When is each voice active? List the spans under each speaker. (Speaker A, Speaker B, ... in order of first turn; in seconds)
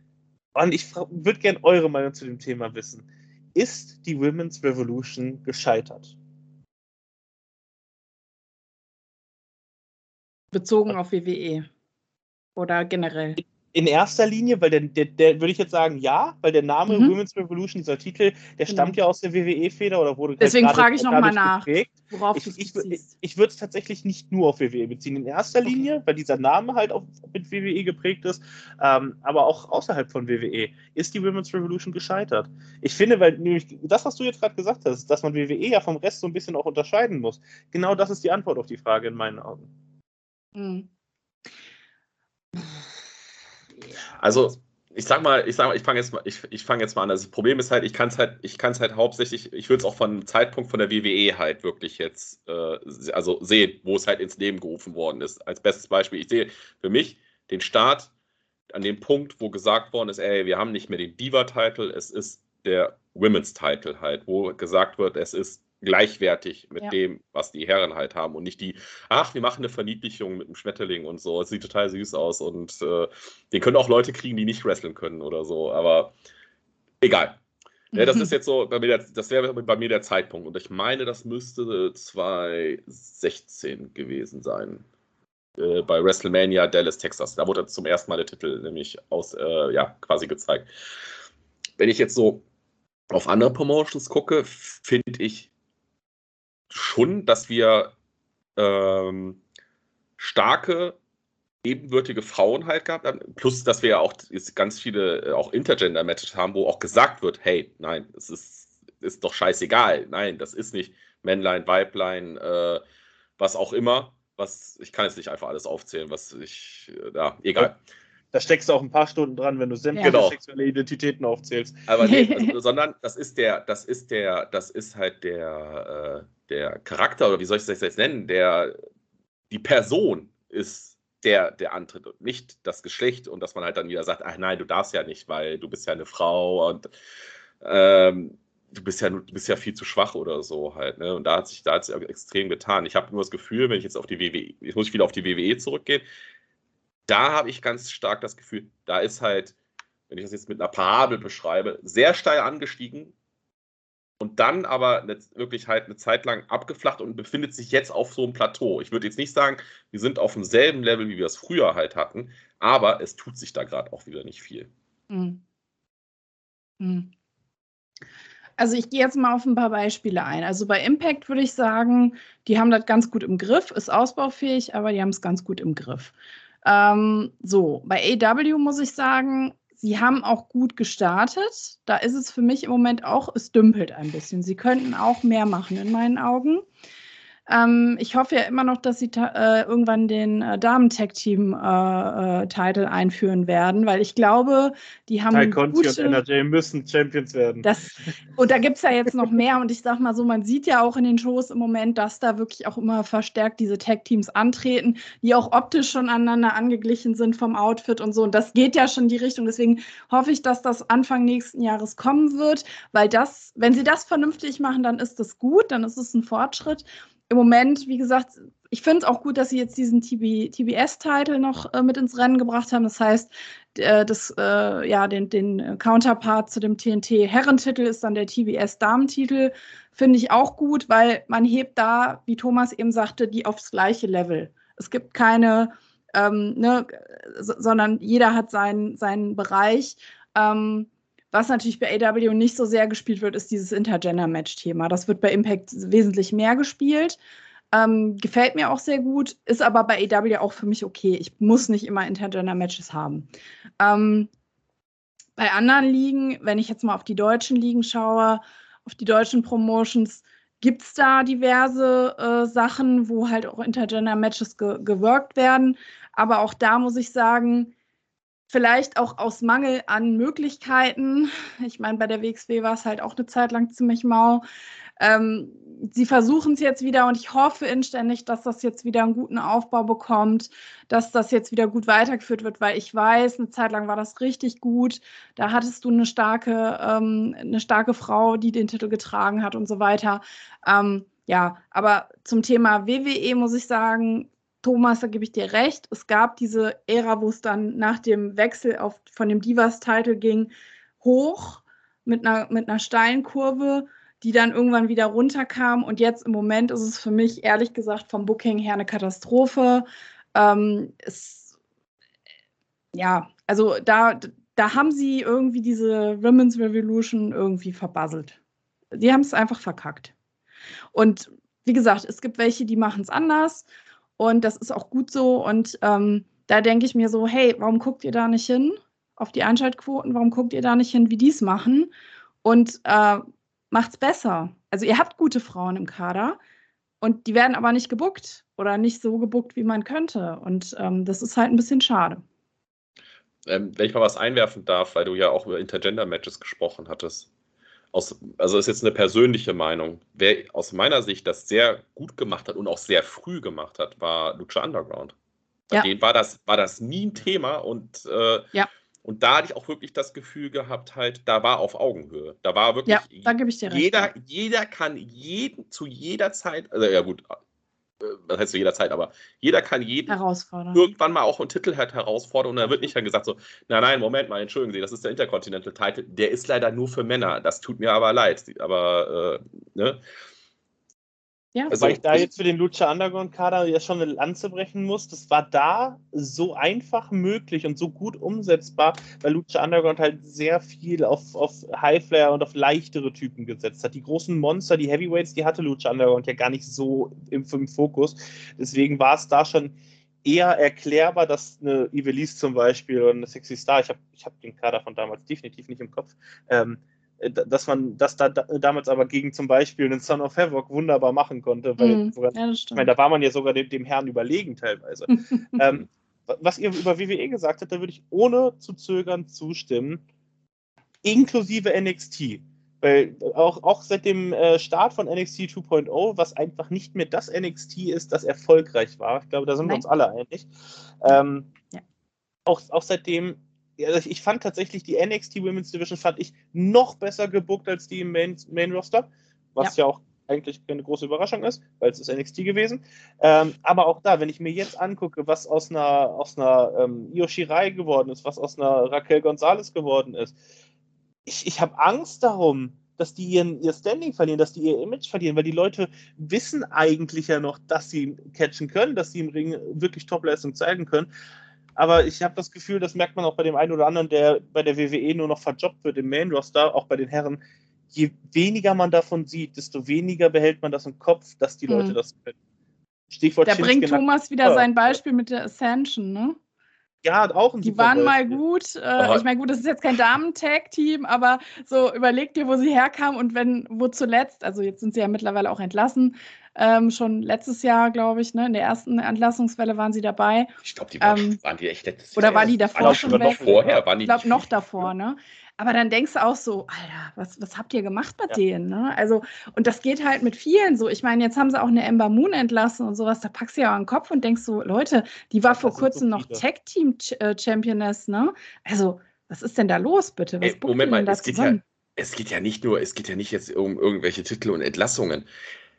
Speaker A: 0.5-6.2, 13.4-39.7, 118.3-121.8, 195.3-197.7, 381.7-420.0, 421.0-430.5, 431.0-431.5, 432.4-450.4, 451.2-461.1, 461.8-467.4, 467.9-472.4, 473.1-475.0, 477.0-478.4, 492.2-493.8, 505.5-506.4
Speaker B: 10.5-11.7, 12.6-13.4, 16.9-17.1, 18.7-19.0, 20.4-23.1, 40.5-40.9, 77.9-78.3, 122.0-122.5, 165.1-165.4, 166.8-167.1, 168.6-186.6, 187.5-196.2, 197.6-247.2, 247.7-253.3, 253.8-254.3, 255.4-267.7, 268.5-274.4, 275.0-311.5, 312.9-318.4, 318.9-320.1, 320.9-323.7, 324.2-331.9, 332.4-336.4, 337.0-342.2, 362.9-364.1, 370.1-370.9, 411.8-412.9, 415.1-415.6, 471.7-472.0, 473.4-476.4, 477.6-491.4, 492.1-493.4, 494.0-511.6
Speaker C: 44.2-58.1, 58.7-76.1, 77.0-77.4, 77.9-84.8, 85.6-90.7, 91.8-92.4, 93.1-95.5, 96.7-97.9, 98.5-99.4, 100.2-101.0, 101.6-112.8, 113.4-117.8, 120.0-120.4, 121.9-128.8, 129.5-136.9, 137.6-146.0, 147.1-149.5, 150.1-153.1, 154.2-164.7, 343.4-347.3, 347.9-355.1, 355.7-358.5, 359.0-367.2, 368.0-370.1, 370.7-380.0, 381.7-382.2, 479.0-479.2, 490.6-494.6, 510.4-515.3